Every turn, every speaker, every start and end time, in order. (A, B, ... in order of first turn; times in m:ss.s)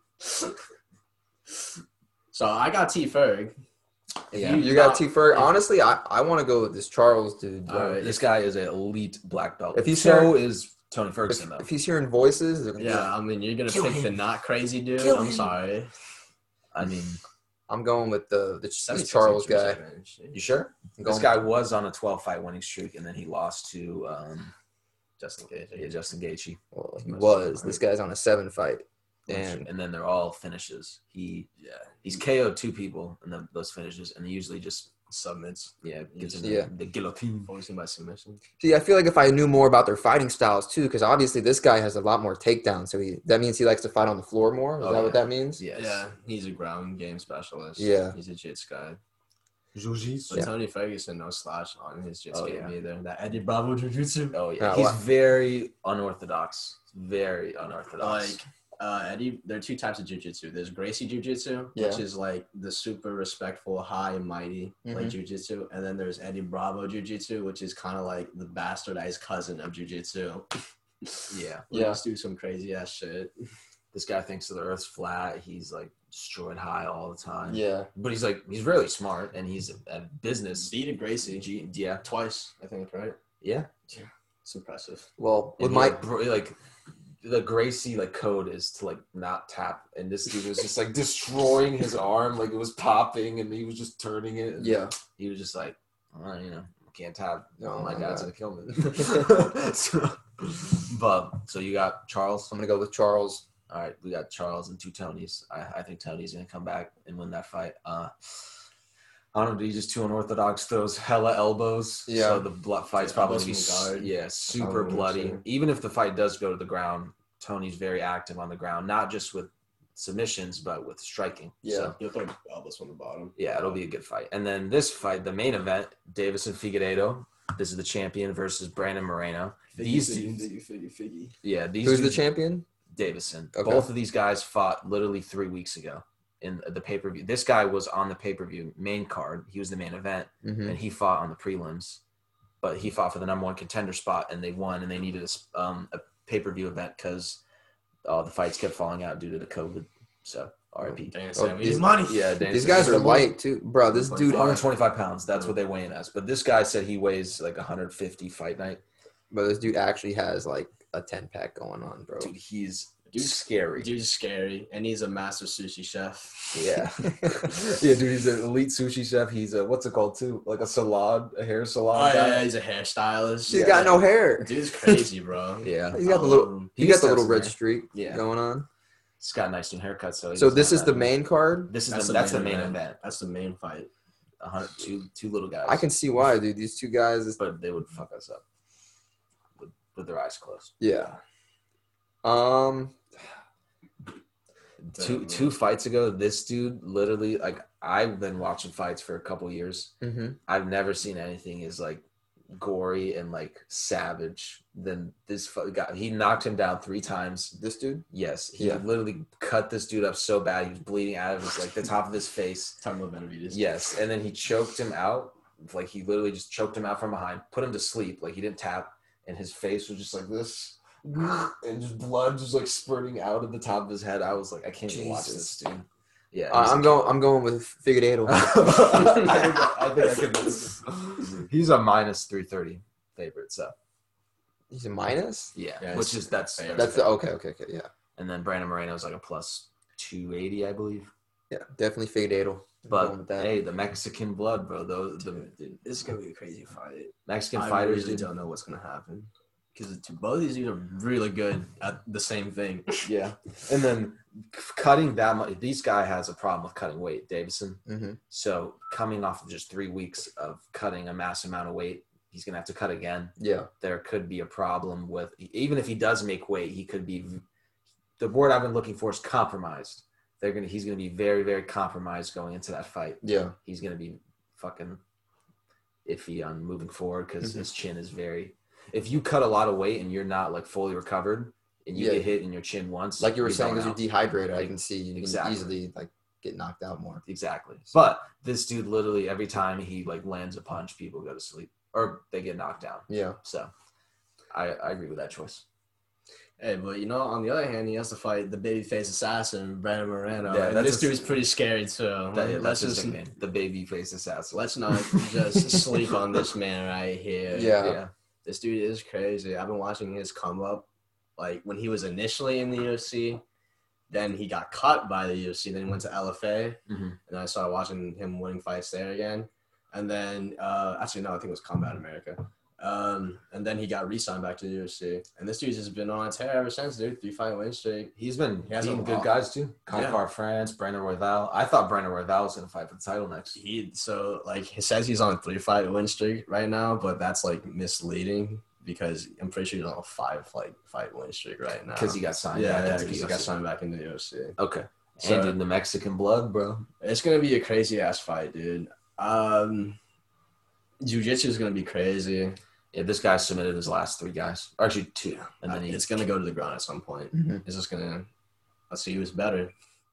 0:00.2-0:00.6 A
0:02.3-0:03.6 A
0:04.3-0:05.6 A
0:04.4-0:04.6 B
0:04.4-0:08.0 C
0:07.7-0:08.2 A
0:08.0-0:11.7 B
0:09.7-0:10.4 C
0:11.3-0:13.1 C
0:12.8-0:15.9 A
0:15.0-0:15.5 B
0:16.7-0:17.2 B
0:17.7-0:19.8 C
0:18.8-0:20.4 A
0:20.3-0:24.5 B
0:21.0-0:21.3 C
0:25.2-0:26.0 A
0:25.8-0:26.6 B
0:26.7-0:29.7 C
0:27.1-0:27.8 A
0:29.3-0:31.5 B
0:31.6-0:32.2 A
0:32.0-0:35.0 B
0:35.1-0:36.5 A
0:35.8-0:37.5 B
0:36.4-0:36.7 C
0:37.5-0:38.4 A
0:38.6-0:45.6 C
0:44.8-0:46.0 B
0:45.8-0:49.0 A
0:47.8-0:48.2 C
0:49.8-0:50.5 B
0:50.3-0:54.4 A
0:52.3-0:52.8 B
0:54.3-0:58.4 B
0:54.6-0:55.0 C
0:58.0-1:10.5 A
1:01.8-1:02.0 C
1:04.8-1:05.2 C
1:11.0-1:13.3 A
1:11.3-1:11.7 B
1:11.7-1:12.0 C
1:13.9-1:20.7 B
1:17.5-1:17.9 C
1:20.6-1:21.5 A
1:21.3-1:22.0 B
1:22.0-1:23.2 A
1:23.4-1:23.7 B
1:23.9-1:25.1 A
1:25.2-1:26.0 C
1:25.6-1:26.6 B
1:27.2-1:42.5 B
1:34.6-1:35.0 C
1:37.6-1:38.3 C
1:42.5-1:43.4 C
1:43.7-1:48.5 B
1:49.3-2:02.0 B
1:52.1-1:52.5 C
1:53.0-1:55.4 A
2:01.6-2:02.0 C
2:02.0-2:03.8 A
2:03.4-2:10.5 B
2:09.8-2:11.4 A
2:11.4-2:12.3 B
2:11.8-2:12.7 C
2:12.9-2:22.0 B
2:13.6-2:13.9 C
2:20.4-2:20.8 C
2:22.6-2:27.4 B
2:28.0-2:31.2 B
2:31.1-2:32.8 A
2:31.4-2:34.6 C
2:31.7-2:33.3 B
2:33.9-2:34.7 A
2:34.2-2:38.8 B
2:39.3-2:42.3 C
2:42.2-2:43.9 B
2:43.1-2:46.6 A
2:46.5-2:52.5 B
2:47.1-2:47.4 C
2:51.9-2:56.7 A
2:53.5-2:55.0 C
2:53.5-2:53.9 B
2:55.6-2:56.1 B
2:55.9-2:58.7 C
2:56.8-2:58.2 B
2:59.2-3:01.1 B
3:00.4-3:01.7 C
3:01.7-3:03.0 B
3:01.9-3:03.9 A
3:04.4-3:05.9 B
3:05.7-3:07.4 C
3:07.4-3:08.4 B
3:09.6-3:10.7 B
3:10.8-3:11.2 C
3:12.2-3:13.0 C
3:14.8-3:20.0 B
3:15.0-3:15.6 A
3:20.0-3:20.4 C
3:20.5-3:27.6 B
3:27.6-3:28.0 C
3:28.1-3:32.8 B
3:28.6-3:28.8 C
3:32.8-3:33.7 A
3:33.5-3:47.2 B
3:44.9-3:45.6 C
3:46.5-3:48.8 C
3:48.3-3:53.8 B
3:49.0-3:49.3 A
3:54.7-3:55.5 C
3:55.6-3:57.1 B
3:55.8-3:57.1 A
3:56.7-3:57.9 C
3:58.2-4:01.1 B
4:01.5-4:03.6 C
4:02.9-4:05.8 B
4:05.4-4:13.1 A
4:07.3-4:08.3 B
4:13.0-4:27.4 B
4:17.9-4:18.2 C
4:23.4-4:23.7 C
4:28.2-4:35.0 B
4:33.2-4:33.6 C
4:36.1-4:44.0 B
4:42.0-4:42.3 C
4:43.2-4:47.2 C
4:44.6-4:45.8 B
4:47.3-4:53.7 B
4:53.1-4:53.4 C
4:54.5-4:55.6 B
4:56.6-5:03.2 A
5:00.5-5:01.2 B
5:02.3-5:06.1 B
5:04.5-5:07.8 A
5:07.5-5:08.0 C
5:07.8-5:08.1 B
5:08.4-5:13.4 A
5:14.1-5:28.1 A
5:16.9-5:17.2 B
5:28.2-5:33.6 B
5:28.7-5:29.3 A
5:29.9-5:30.2 A
5:33.6-5:44.6 A
5:41.9-5:43.5 B
5:44.6-5:46.9 B
5:45.2-5:45.6 A
5:47.0-5:50.0 A
5:51.0-5:52.6 A
5:52.9-5:56.1 B
5:55.5-5:58.3 A
5:57.3-5:57.6 C
5:58.9-5:59.7 A